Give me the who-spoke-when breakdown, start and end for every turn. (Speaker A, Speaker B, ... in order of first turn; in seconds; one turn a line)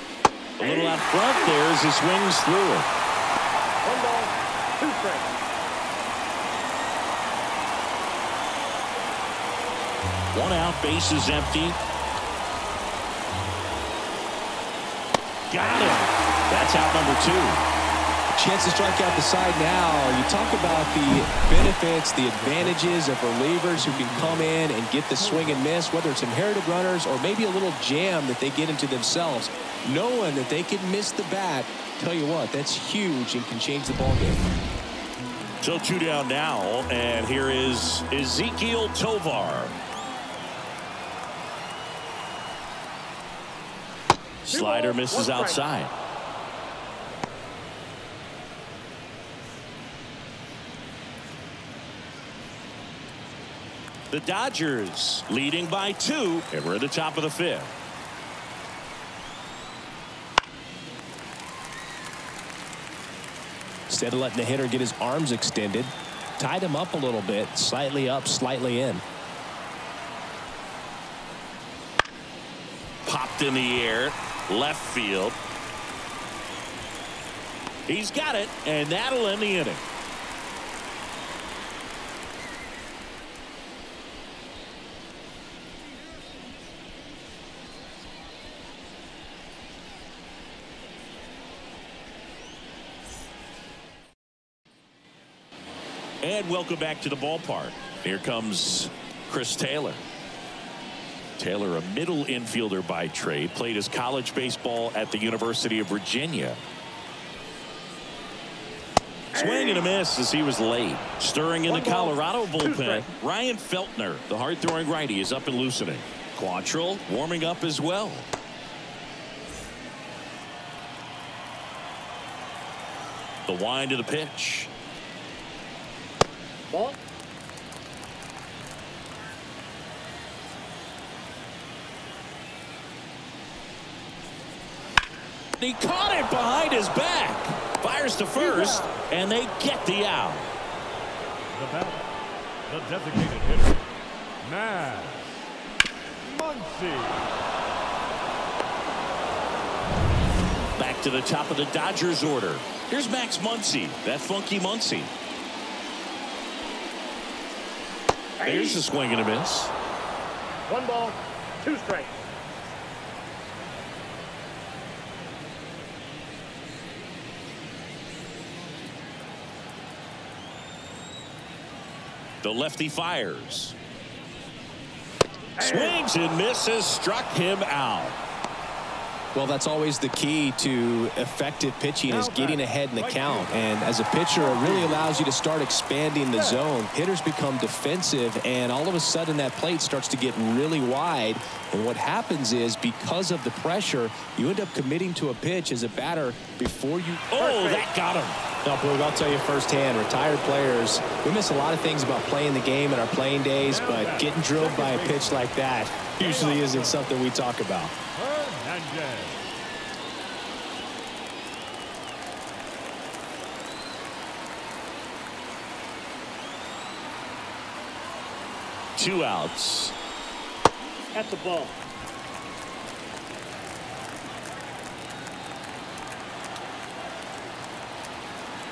Speaker A: 0.6-2.9
Speaker B: 0.6-1.5
Speaker B: 3.8-5.3
Speaker A: 10.3-11.8
Speaker A: 15.5-17.6
Speaker C: 18.3-34.4
Speaker D: 22.3-24.6
Speaker D: 25.1-25.7
Speaker A: 35.6-39.8
Speaker A: 44.4-45.9
Speaker B: 44.5-45.6
Speaker A: 54.1-57.7
Speaker C: 63.9-69.0
Speaker A: 73.0-75.4
Speaker A: 77.9-79.8
Speaker A: 96.2-100.0
Speaker A: 101.4-106.6
Speaker A: 109.3-118.2
Speaker B: 109.3-109.8
Speaker B: 111.7-113.1
Speaker A: 123.5-124.7
Speaker B: 126.7-127.0
Speaker A: 135.6-140.5
Speaker B: 138.3-138.9
Speaker D: 141.5-142.1
Speaker D: 142.7-145.5
Speaker D: 146.2-147.3
Speaker A: 150.8-155.1
Speaker B: 158.4-158.8
Speaker A: 158.4-159.7
Speaker B: 160.7-162.1
Speaker A: 172.4-173.7
Speaker B: 175.6-176.0
Speaker A: 175.6-178.2
Speaker C: 179.3-197.3
Speaker D: 182.1-183.7
Speaker D: 184.3-185.3
Speaker D: 186.3-186.7
Speaker A: 197.3-198.4
Speaker B: 197.3-197.9
Speaker C: 198.6-207.9
Speaker D: 203.6-205.6
Speaker D: 206.1-207.1
Speaker D: 208.1-209.5
Speaker A: 218.9-219.9
Speaker B: 221.1-221.8